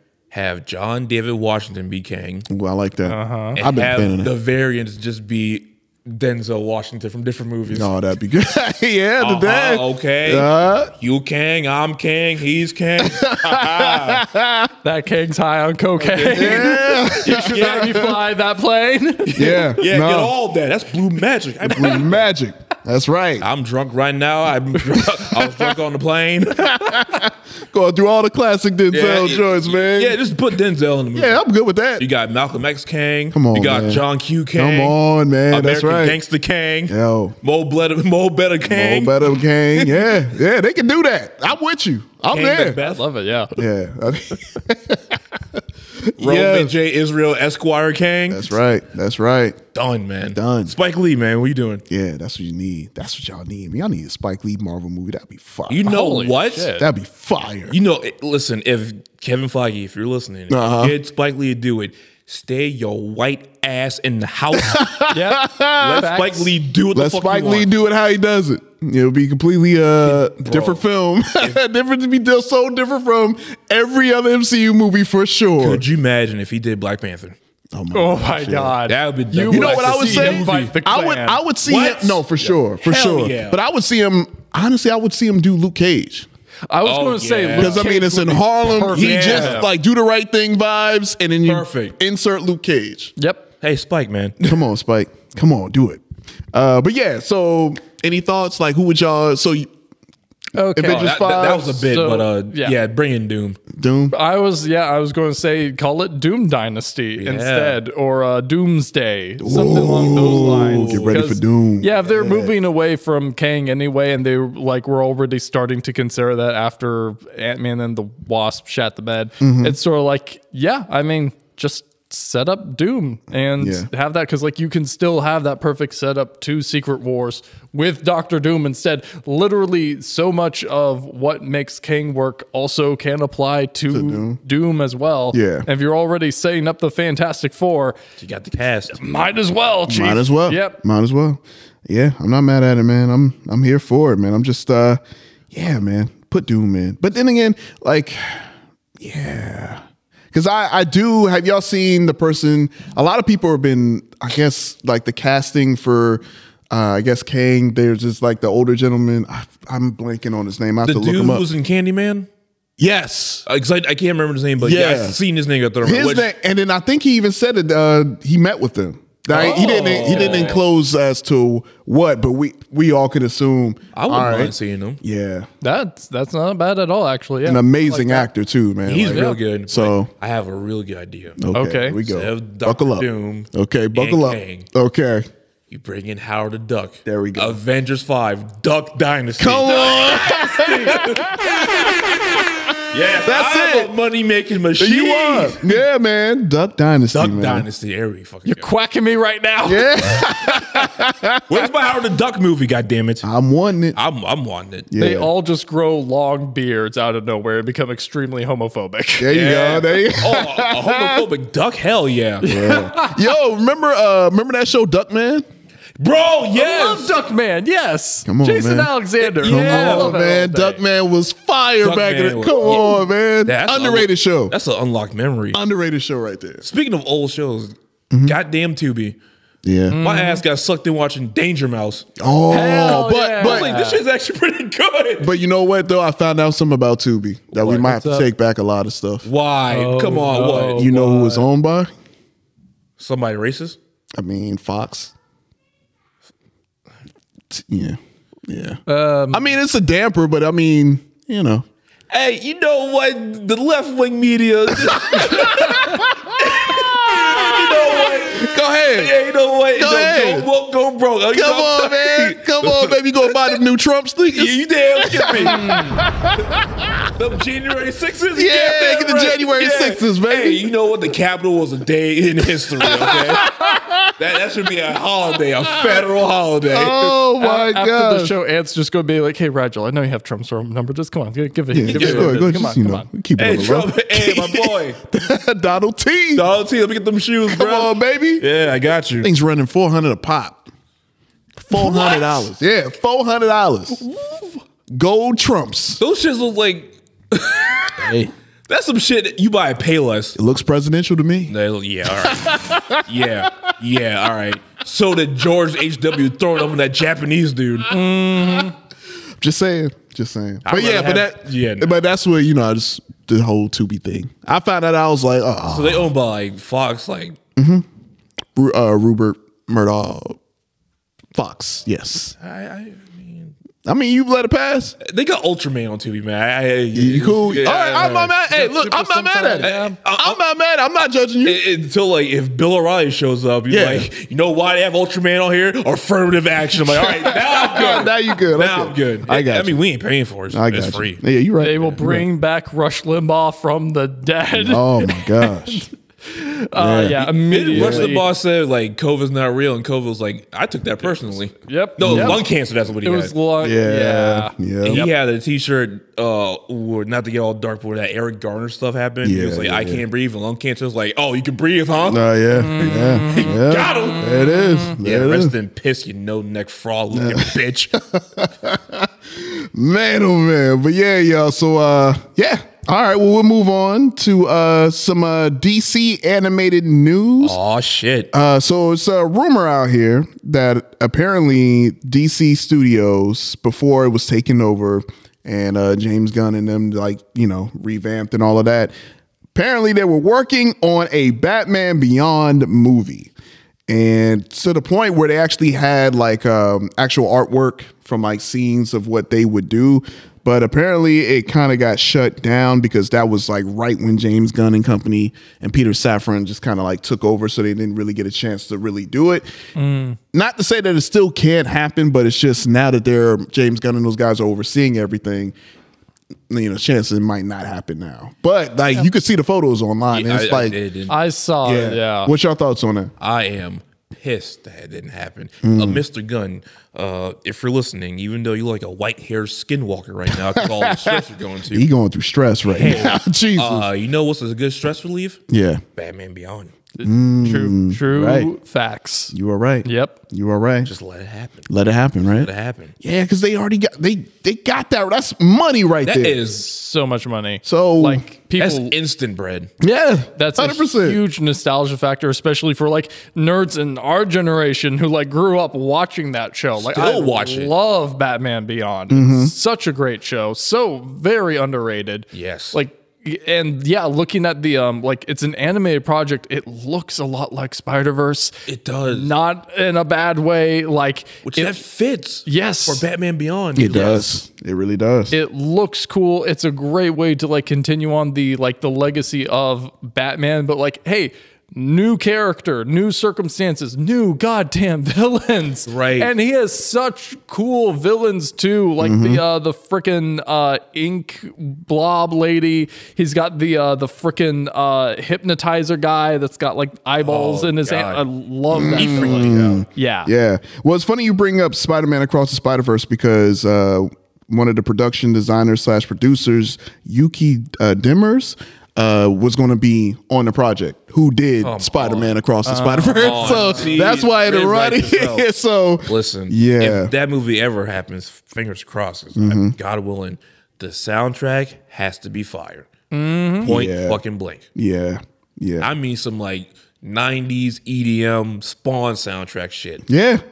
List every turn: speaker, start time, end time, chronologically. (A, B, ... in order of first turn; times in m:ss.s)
0:00.3-0:02.5 A
0:02.5-0:04.3 B
0:03.1-0:03.6 C
0:03.5-0:07.9 A
0:07.7-0:10.9 B
0:09.2-0:14.2 A
0:13.0-0:14.7 B
0:14.8-0:19.7 C
0:16.0-0:18.1 A
0:16.3-0:18.1 B
0:19.2-0:22.3 A
0:19.4-0:20.3 B
0:21.6-0:23.4 B
0:23.4-0:26.7 A
0:25.2-0:25.7 B
0:26.6-0:30.2 B
0:28.9-0:31.4 A
0:31.1-0:32.1 B
0:32.0-0:35.0 A
0:33.3-0:34.0 B
0:34.5-0:36.2 B
0:35.5-0:39.2 A
0:36.9-0:37.3 B
0:38.6-0:42.8 B
0:39.7-0:40.2 A
0:42.3-0:43.0 A
0:42.8-0:43.5 C
0:43.6-0:46.7 B
0:46.2-0:48.5 A
0:48.3-0:49.6 B
0:49.7-0:51.8 A
0:50.3-0:50.7 B
0:51.9-0:57.8 B
0:55.7-0:56.7 A
0:55.8-0:56.9 C
0:57.7-1:04.9 A
1:00.5-1:01.0 B
1:04.6-1:06.1 B
1:05.1-1:06.5 C
1:05.8-1:07.7 A
1:06.9-1:15.8 B
1:10.0-1:10.8 A
1:15.6-1:17.4 A
1:17.7-1:18.8 B
1:17.9-1:21.4 C
1:18.9-1:20.7 A
1:19.4-1:26.3 B
1:21.7-1:23.6 A
1:26.7-1:29.7 C
1:26.8-1:27.8 A
1:27.6-1:33.1 B
1:28.9-1:29.7 A
1:31.4-1:31.9 A
1:33.2-1:33.4 C
1:33.6-1:34.4 A
1:34.4-1:36.0 B
1:36.5-1:39.7 B
1:40.6-1:42.8 C
1:40.7-1:41.9 B
1:40.8-1:43.6 A
1:43.7-1:44.1 B
1:44.1-2:18.0 C
1:47.2-1:47.8 A
1:49.4-1:52.5 B
1:50.1-1:51.0 A
1:59.4-1:59.8 B
2:03.6-2:03.9 B
2:13.9-2:14.4 B
2:15.3-2:15.7 B
2:18.2-2:19.0 A
2:18.9-2:20.8 C
2:19.9-2:28.5 B
2:29.0-2:41.4 B
2:40.8-2:42.3 A
2:42.8-2:43.4 B
2:43.4-2:46.3 A
2:44.6-2:45.2 B
2:45.8-2:55.5 B
2:49.3-2:50.6 A
2:49.3-2:50.6 C
2:53.9-2:55.0 A
2:55.6-2:58.3 C
2:57.4-3:00.1 B
2:58.9-3:01.4 A
2:59.1-2:59.4 C
3:01.4-3:05.3 B
3:01.5-3:02.0 C
3:02.0-3:04.7 A
3:05.7-3:10.2 A
3:07.0-3:07.6 B
3:09.4-3:11.9 B
3:09.7-3:11.0 C
3:10.9-3:11.2 A
3:12.9-3:15.7 A
3:13.2-3:13.9 B
3:14.8-3:17.6 B
3:17.1-3:18.7 A
3:18.4-3:19.9 C
3:19.6-3:21.6 B
3:21.5-3:23.3 A
3:23.2-3:24.0 B
3:23.9-3:24.9 A
3:24.9-3:25.3 B
3:25.0-3:29.3 C
3:29.2-3:31.3 B
3:29.3-3:32.6 A
3:32.4-3:35.4 B
3:32.4-3:33.2 C
3:36.0-3:37.2 A
3:36.5-3:40.8 C
3:38.2-3:44.5 B
3:39.3-3:40.2 A
3:41.8-3:45.6 A
3:45.5-3:46.6 B
3:46.6-3:49.2 A
3:48.1-3:48.4 B
3:49.6-3:50.0 B
3:49.9-3:50.4 C
3:50.0-3:52.1 A
3:52.2-3:53.7 B
3:52.5-3:54.0 C
3:53.4-3:55.4 A
3:55.2-3:59.3 B
3:57.6-3:58.3 C
3:59.2-4:00.9 A
3:59.7-4:01.4 C
4:00.7-4:01.9 B
4:03.0-4:03.8 A
4:04.2-4:05.1 B
4:07.5-4:08.8 B
4:08.9-4:09.4 C
4:09.3-4:11.6 B
4:12.1-4:23.0 A
4:14.8-4:19.1 B
4:19.7-4:20.5 B
4:21.3-4:26.9 B
4:24.3-4:25.9 A
4:25.5-4:26.0 C
4:27.1-4:33.5 A
4:28.3-4:30.7 B
4:32.8-4:34.1 B
4:34.2-4:37.2 A
4:35.8-4:36.0 B
4:36.7-4:38.3 B
4:37.4-4:43.1 C
4:41.7-4:46.5 B
4:41.9-4:42.3 A
4:43.4-4:45.0 A
4:46.3-4:49.3 A
4:47.5-4:48.5 B
4:49.2-4:50.6 B
4:51.6-4:54.0 B
4:51.8-4:52.4 A
4:54.9-4:56.0 B
4:56.0-4:58.1 A
4:58.0-4:58.3 B
4:58.7-5:00.4 A
5:00.4-5:01.5 B
5:01.5-5:07.9 A
5:02.2-5:03.0 B
5:07.9-5:08.7 C
5:09.4-5:16.1 B
5:10.6-5:11.9 A
5:15.7-5:17.4 A
5:17.6-5:17.8 B
5:18.6-5:20.4 B
5:21.3-5:22.3 B
5:22.4-5:23.5 A
5:23.8-5:25.0 B
5:25.0-5:28.3 A
5:26.9-5:31.6 B
5:28.5-5:30.0 C
5:29.6-5:30.4 A
5:31.4-5:41.2 A
5:33.7-5:34.1 B
5:36.8-5:39.8 B
5:40.5-5:42.2 B
5:41.6-5:48.2 C
5:44.6-5:45.8 B
5:46.7-5:48.1 B
5:47.4-5:53.3 A
5:51.6-5:52.4 C
5:52.0-5:52.4 B
5:53.0-5:55.1 C
5:53.6-5:55.1 B
5:54.8-6:02.2 A
5:59.2-6:00.0 B
6:02.1-6:05.5 B
6:02.5-6:03.6 C
6:03.3-6:08.0 A
6:04.2-6:05.0 C
6:07.1-6:07.6 B
6:08.1-6:17.6 B
6:17.4-6:18.3 A
6:18.3-6:28.9 B
6:29.5-6:33.3 B
6:33.9-6:49.5 B
6:49.8-6:50.2 C
6:50.3-6:55.5 B
6:56.5-7:00.8 B
7:00.1-7:01.1 A
7:01.1-7:02.3 C
7:01.6-7:03.1 B
7:03.2-7:11.9 A
7:05.6-7:06.0 B
7:10.3-7:11.2 B
7:11.7-7:13.9 B
7:12.7-7:15.4 A
7:15.5-7:15.8 B
7:16.0-7:16.7 A
7:17.0-7:19.3 C
7:17.0-7:18.5 B
7:19.3-7:20.9 B
7:19.8-7:20.2 C
7:20.8-7:21.7 A
7:21.7-7:26.4 B
7:22.4-7:22.9 A
7:26.0-7:26.6 A
7:26.5-7:28.9 C
7:27.6-7:28.2 B
7:28.6-7:29.7 A
7:29.8-7:31.2 B
7:30.4-7:48.6 C
7:36.8-7:37.7 A
7:39.1-7:39.5 B
7:42.3-7:42.8 A
7:48.7-7:49.3 A
7:49.1-7:51.8 C
7:51.4-7:54.3 A
7:52.4-7:53.0 C
7:53.8-7:55.4 B
7:55.3-8:20.3 C
8:05.9-8:06.3 A
8:09.0-8:09.4 B
8:17.2-8:18.2 A
8:18.7-8:37.1 B
8:18.9-8:19.8 A
8:31.6-8:32.3 A
8:32.6-8:33.9 C
8:33.2-8:35.5 A
8:36.0-8:42.9 A
8:39.3-8:39.7 B
8:43.1-8:43.7 C
8:43.6-8:44.6 A
8:43.6-8:44.2 B
8:44.7-8:45.9 B
8:45.8-8:50.1 A
8:50.1-8:50.4 B